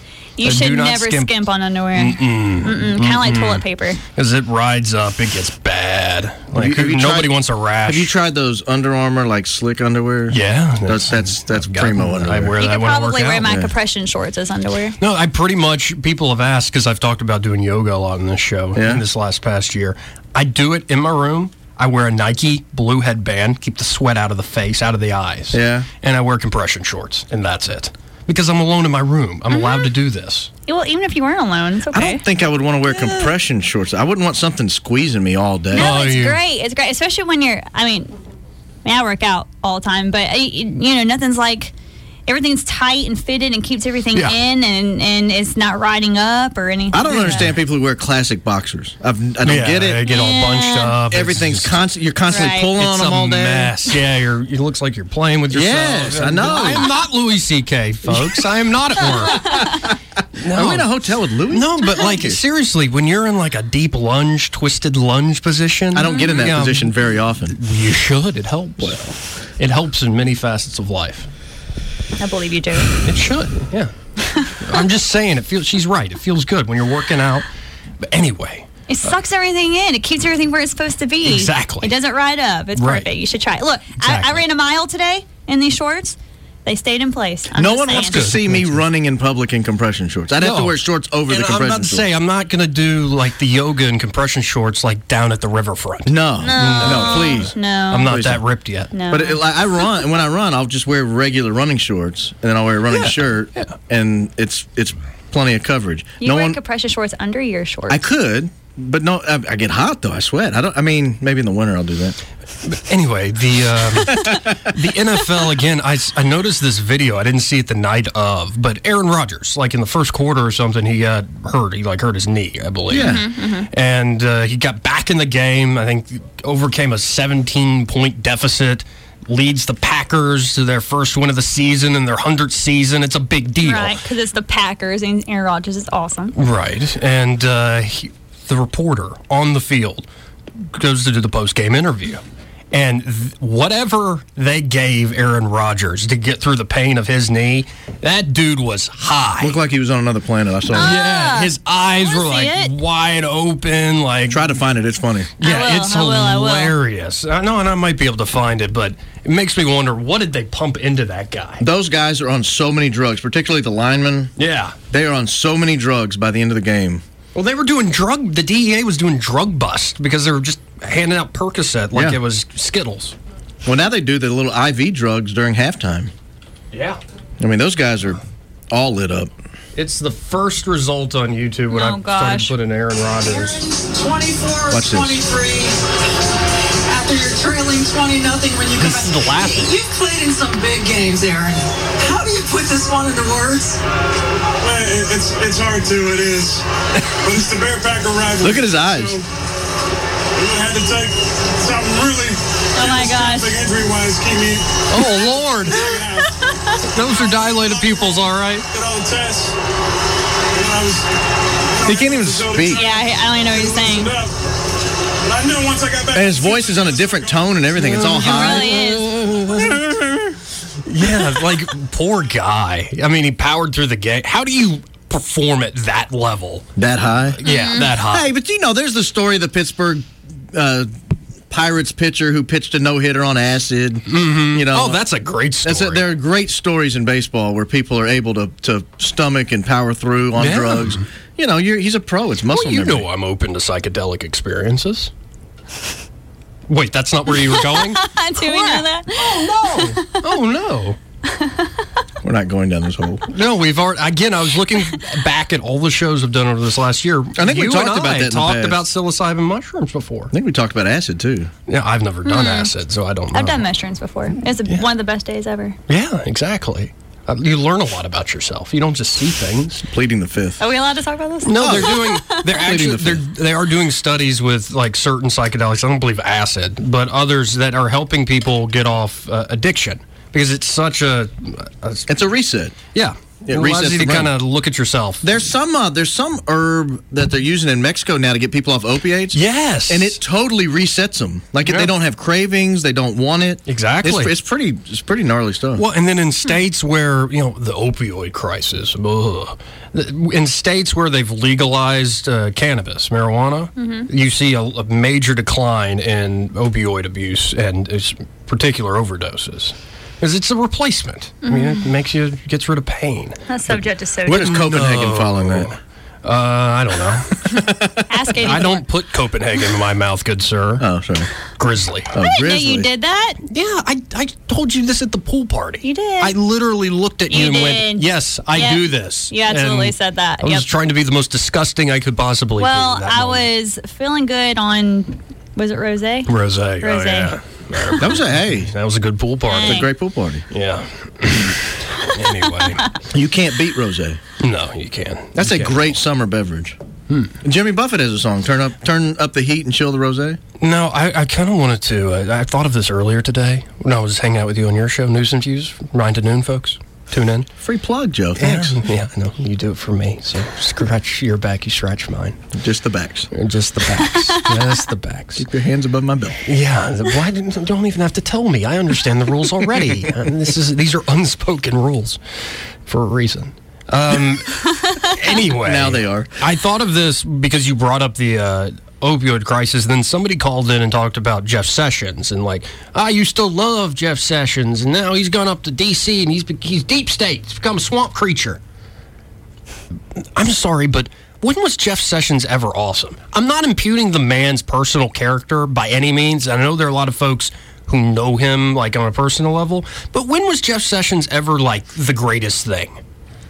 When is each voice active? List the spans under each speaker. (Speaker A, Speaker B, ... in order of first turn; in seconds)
Speaker A: 0.4-4.0, 12.6-15.0, 29.5-29.9, 30.7-32.2, 35.7-38.1, 38.8-41.7, 42.3-47.5, 50.1-50.9, 52.3-52.7, 72.2-72.9, 78.9-88.2, 96.4-98.1, 98.9-99.4, 106.2-108.0, 123.0-123.7, 133.6-136.3, 150.7-152.7, 155.4-156.8, 181.7-182.5, 202.8-203.5, 205.7-206.8, 212.7-214.1, 218.1-219.1, 227.4-227.9, 247.3-250.2, 251.3-251.7, 262.2-262.7, 263.3-265.8, 270.6-272.4, 303.8-304.1, 311.4-311.8, 313.5-314.6, 318.1-318.8, 322.2-323.4, 325.8-326.4, 327.3-330.7, 332.6-338.0, 339.5-339.9
Speaker B: 0.4-1.3, 1.9-8.1, 10.3-13.5, 15.0-30.5, 35.7-36.4, 47.1-47.5, 49.4-51.7, 52.8-59.7, 60.4-60.9, 61.5-66.9, 67.5-71.3, 73.0-73.9, 74.6-77.5, 78.0-78.7, 81.2-81.9, 82.8-83.1, 84.0-84.4, 87.9-88.8, 90.4-98.9, 102.9-103.7, 112.6-134.0, 136.3-140.1, 140.7-149.6, 150.7-154.5, 155.4-161.6, 164.4-164.8, 167.3-173.1, 176.7-177.0, 179.8-183.6, 188.8-189.7, 204.9-205.8, 206.9-208.7, 217.8-219.8, 220.8-226.7, 227.4-228.3, 234.1-236.1, 240.4-241.1, 242.5-245.1, 246.7-251.0, 253.3-260.3, 261.7-263.6, 265.9-269.8, 271.4-282.1, 282.9-285.2, 289.3-290.2, 291.6-291.9, 293.7-294.3, 295.8-313.4, 314.3-317.6, 318.4-320.8, 321.6-322.1, 323.5-333.5, 336.3-339.9, 340.5-342.9, 344.4-345.9, 350.6-357.5, 358.4-362.4, 363.3-365.4, 366.4-372.2, 372.9-388.6, 390.4-403.0
Speaker C: 6.5-12.6, 13.4-13.7, 18.7-19.0, 25.5-25.9, 31.9-35.9, 46.9-50.0, 51.1-53.8, 55.5-56.9, 59.4-59.8, 60.5-62.4, 65.9-67.5, 87.5-92.1, 96.0-97.5, 98.0-98.4, 99.1-106.6, 107.9-112.2, 114.1-114.5, 122.9-123.2, 149.4-150.9, 154.3-155.3, 161.6-164.3, 164.9-167.0, 171.9-172.2, 173.6-176.1, 177.4-179.3, 184.7-185.2, 198.4-199.2, 211.8-212.8, 216.1-218.8, 219.5-220.0, 226.8-227.4, 228.1-230.9, 231.5-235.0, 235.6-243.1, 252.2-253.2, 257.4-258.8, 260.3-261.5, 269.9-270.6, 271.6-273.2, 282.1-282.8, 283.4-284.3, 285.2-295.8, 314.2-315.7, 317.5-318.0, 320.8-321.3, 322.1-322.9, 338.0-338.7, 339.6-340.4, 343.1-344.2, 345.3-346.8, 347.4-350.4, 357.6-358.8, 362.5-363.3, 365.4-366.4, 375.6-376.3
Speaker D: 183.2-185.8, 186.8-193.8
Speaker E: 194.6-196.6, 197.2-199.3, 200.3-206.4, 207.3-209.6, 210.5-211.1, 211.7-214.3, 215.2-217.4